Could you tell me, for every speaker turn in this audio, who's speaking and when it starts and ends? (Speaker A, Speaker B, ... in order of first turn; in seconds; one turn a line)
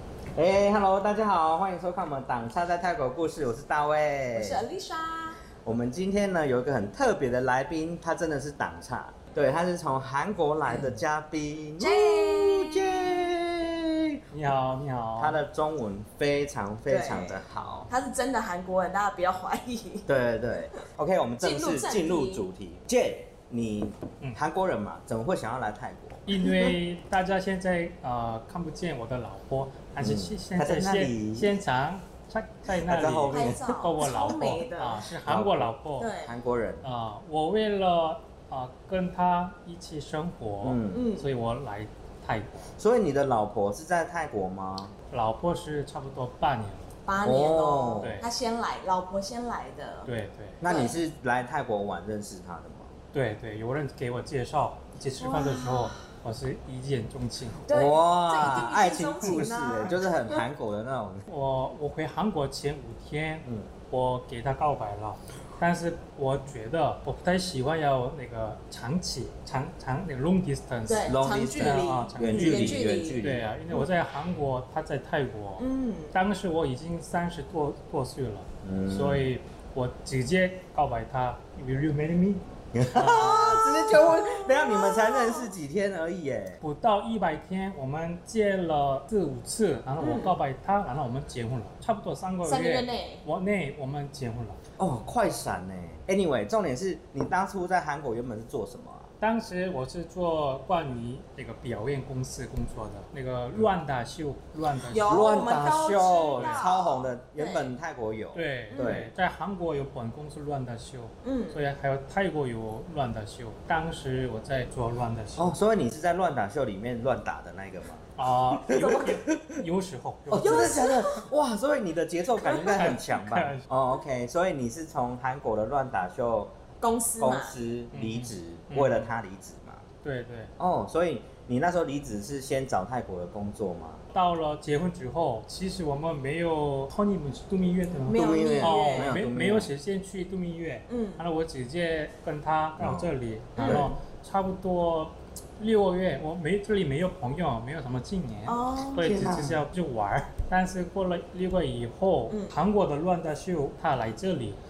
Speaker A: 0.3-4.6
Speaker B: 4.3-5.4
Speaker A: 5.6-14.2
Speaker B: 11.8-13.2
Speaker C: 14.3-15.4
Speaker A: 15.2-17.9
Speaker B: 16.9-20.1
Speaker A: 20.1-26.5
Speaker B: 21.4-22.5
Speaker C: 26.3-36.1
Speaker A: 30.0-31.5
Speaker A: 32.7-33.6
Speaker B: 33.3-35.1
Speaker A: 35.2-36.9
Speaker B: 36.0-36.3
Speaker C: 36.8-42.7
Speaker A: 40.6-41.1
Speaker B: 40.9-41.3
Speaker A: 42.8-44.9
Speaker C: 45.1-46.9
Speaker B: 47.1-50.1
Speaker A: 47.2-48.2
Speaker C: 48.0-48.3
Speaker C: 50.1-50.6
Speaker A: 50.6-52.9
Speaker B: 50.6-51.0
Speaker C: 53.1-57.6
Speaker B: 55.2-56.0
Speaker B: 57.7-60.4
Speaker A: 57.7-61.3
Speaker C: 59.2-59.9
Speaker C: 61.3-83.7
Speaker B: 70.9-73.2
Speaker A: 71.1-73.5
Speaker B: 75.6-76.2
Speaker A: 78.6-79.3
Speaker A: 82.7-86.6
Speaker B: 83.1-85.5
Speaker C: 86.6-94.6
Speaker B: 90.0-90.3
Speaker B: 92.4-93.2
Speaker A: 94.8-99.1
Speaker C: 99.2-105.3
Speaker B: 104.9-107.7
Speaker A: 105.0-109.1
Speaker C: 106.3-106.7
Speaker C: 108.3-115.6
Speaker B: 108.7-109.0
Speaker B: 111.2-111.6
Speaker A: 115.4-119.6
Speaker C: 118.2-120.8
Speaker B: 118.7-119.3
Speaker A: 120.3-126.6
Speaker B: 120.4-121.3
Speaker C: 122.7-123.7
Speaker B: 126.8-127.5
Speaker A: 127.2-129.8
Speaker C: 127.9-129.1
Speaker C: 130.0-130.5
Speaker A: 130.6-134.0
Speaker C: 134.1-154.6
Speaker B: 138.1-139.2
Speaker A: 138.1-139.7
Speaker B: 140.9-141.2
Speaker A: 142.8-143.9
Speaker B: 143.6-143.9
Speaker B: 148.5-149.2
Speaker A: 149.0-149.6
Speaker B: 152.3-152.5